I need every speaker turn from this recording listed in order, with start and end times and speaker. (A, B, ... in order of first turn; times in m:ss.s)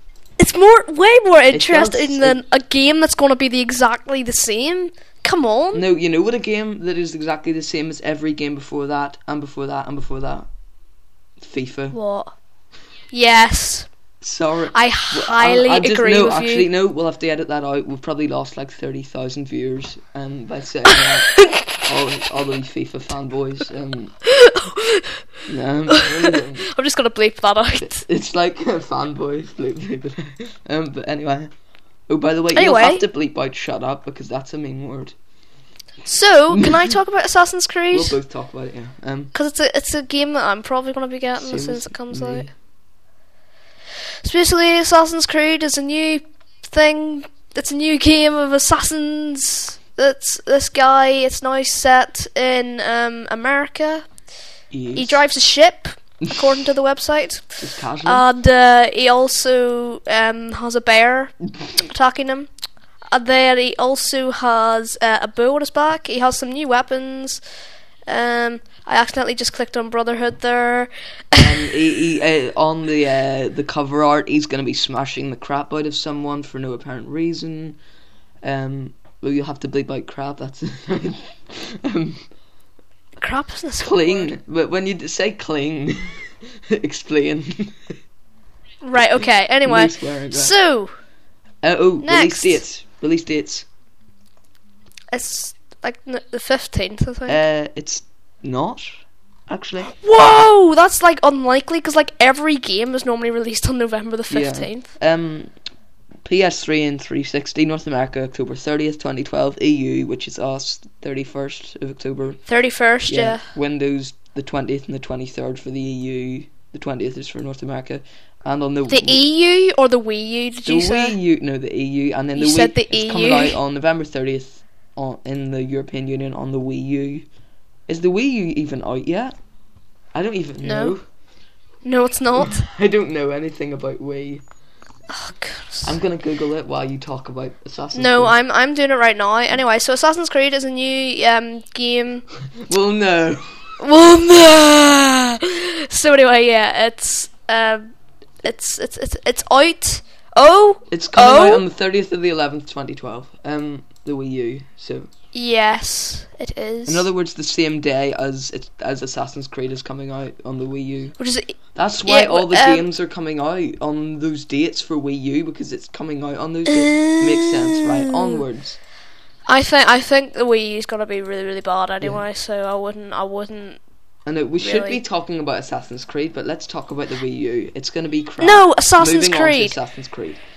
0:00.4-0:05.8 A
0:01.5-0:02.4 B
0:05.7-0:10.5 B
0:11.4-0:12.0 B
0:11.9-0:12.3 A
0:13.1-0:13.9 A
0:14.2-0:24.1 B
0:14.7-0:16.7 A
0:24.3-0:25.2 A
0:25.5-0:26.6 B
0:25.9-0:28.0 A
0:27.8-0:31.5 B
0:32.1-0:35.1 B
0:32.5-0:33.0 A
0:36.0-0:38.2 A
0:36.5-0:36.9 B
0:37.9-0:39.3 B
0:39.3-0:42.4 A
0:41.4-0:42.5 B
0:44.2-0:54.0 A
0:54.7-0:55.2 B
0:54.9-1:02.5 A
0:57.6-0:58.2 B
1:03.1-1:07.4 A
1:08.1-1:11.5 A
1:11.3-1:17.8 B
1:18.4-1:22.2 B
1:23.2-1:24.3 A
1:23.8-1:27.8 B
1:28.8-1:30.9 A
1:29.1-1:30.6 B
1:31.6-1:33.7 B
1:32.0-1:32.6 A
1:35.1-1:37.4 A
1:37.3-1:39.9 B
1:39.9-1:44.9 A
1:44.3-1:45.5 B
1:46.2-1:52.4 B
1:52.4-1:53.4 A
1:53.0-1:59.2 B
1:58.9-2:01.2 A
2:00.6-2:07.2 B
2:02.3-2:03.6 A
2:07.9-2:09.3 B
2:10.1-2:11.0 B
2:10.6-2:11.0 A
2:11.8-2:12.6 A
2:12.3-2:14.4 B
2:15.1-2:15.9 A
2:15.8-2:18.4 B
2:17.9-2:22.2 A
2:22.6-2:23.8 B
2:23.8-2:27.8 A
2:28.4-2:31.6 A
2:30.9-2:35.1 B
2:35.3-2:37.1 A
2:36.9-2:41.2 B
2:41.2-2:42.9 A
2:41.7-2:48.8 B
2:46.7-2:48.4 A
2:49.5-2:53.8 A
2:54.2-3:00.4 B
2:54.6-2:55.0 A
2:58.4-2:59.8 A